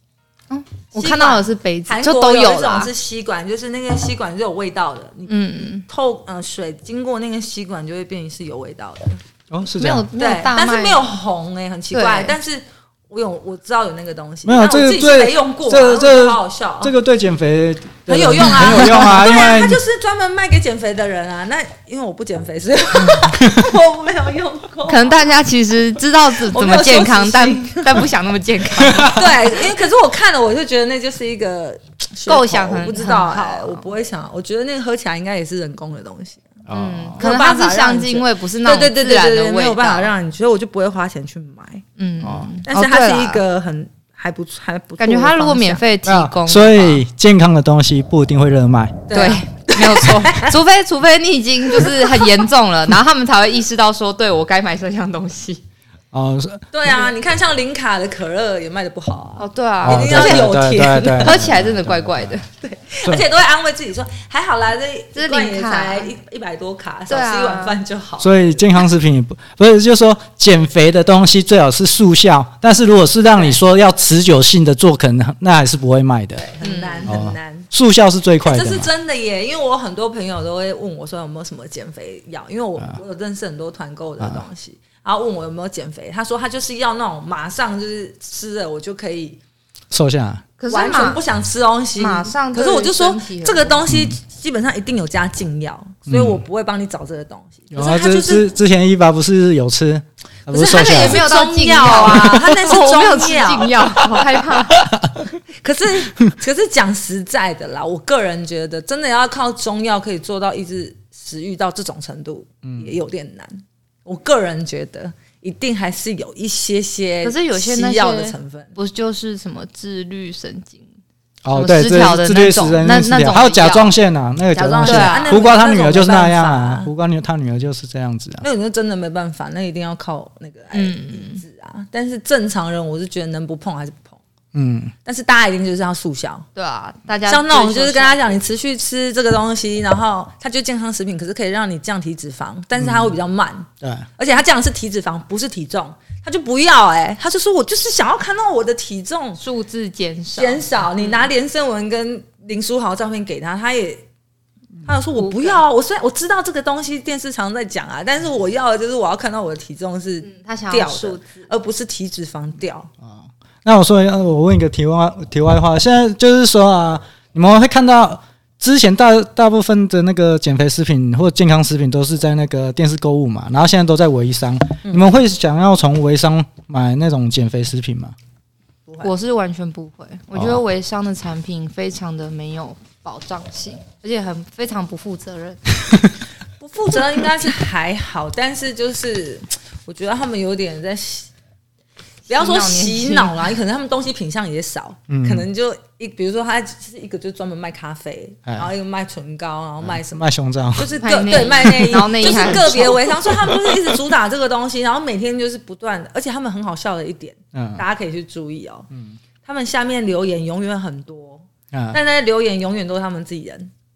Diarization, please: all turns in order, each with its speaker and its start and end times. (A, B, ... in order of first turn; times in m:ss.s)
0:00.5-0:02.9 A
0:01.0-0:09.2 B
0:05.3-0:05.9 A
0:09.5-0:10.1 C
0:09.8-0:11.1 A
0:10.2-0:16.9 B
0:11.9-0:12.4 A
0:14.4-0:19.8 C
0:18.1-0:25.3 B
0:24.9-0:29.3 A
0:26.4-0:28.1 B
0:28.8-0:29.2 C
0:29.0-0:36.5 B
0:32.3-0:33.9 A
0:36.7-0:37.2 C
0:36.7-0:40.1 A
0:37.2-0:41.8 B
0:42.0-0:43.4 A
0:42.2-0:42.5 C
0:42.6-0:45.8 B
0:45.0-0:47.0 A
0:46.0-0:49.1 C
0:49.1-0:50.5 B
0:49.1-0:55.6 A
0:51.7-0:52.2 B
0:56.1-0:56.7 C
0:56.7-1:01.4 B
0:59.4-1:00.5 A
0:59.8-1:02.4 C
1:01.2-1:02.5 A
1:02.6-1:08.8 B
1:05.2-1:06.1 A
1:07.1-1:07.8 A
1:08.2-1:16.5 C
1:16.4-1:17.7 B
1:16.6-1:17.1 A
1:17.1-1:18.9 C
1:18.4-1:29.4 B
1:29.9-1:30.4 C
1:30.6-1:31.2 A
1:30.7-1:38.5 B
1:32.0-1:33.8 A
1:33.9-1:34.1 C
1:36.1-1:36.4 C
1:37.7-1:41.3 C
1:40.5-1:44.0 B
1:40.6-1:44.8 A
1:44.7-1:45.3 C
1:45.6-1:58.7 B
1:52.6-1:52.9 C
1:57.2-2:00.8 A
2:01.4-2:08.4 C
2:01.5-2:03.9 A
2:04.5-2:06.9 B
2:04.8-2:05.4 A
2:08.4-2:14.2 B
2:10.7-2:11.4 A
2:14.5-2:14.9 C
2:15.0-2:16.5 B
2:16.5-2:18.4 A
2:17.3-2:29.4 B
2:22.8-2:23.1 C
2:23.8-2:24.1 C
2:29.4-2:31.2 A
2:30.4-2:34.0 B
2:34.8-2:42.9 B
2:35.2-2:35.6 A
2:40.2-2:41.5 A
2:43.0-2:58.1 C
2:54.8-2:55.1 B
2:58.9-2:59.1 B
2:59.0-3:05.8 A
3:00.4-3:00.6 C
3:06.6-3:11.3 B
3:12.3-3:20.2 B
3:12.3-3:13.5 A
3:15.1-3:15.5 C
3:19.8-3:21.0 C
3:20.8-3:28.9 B
3:21.0-3:23.1 A
3:23.2-3:24.0 C
3:27.5-3:27.8 C
3:28.9-3:29.2 C
3:29.4-3:33.7 B
3:31.7-3:32.0 C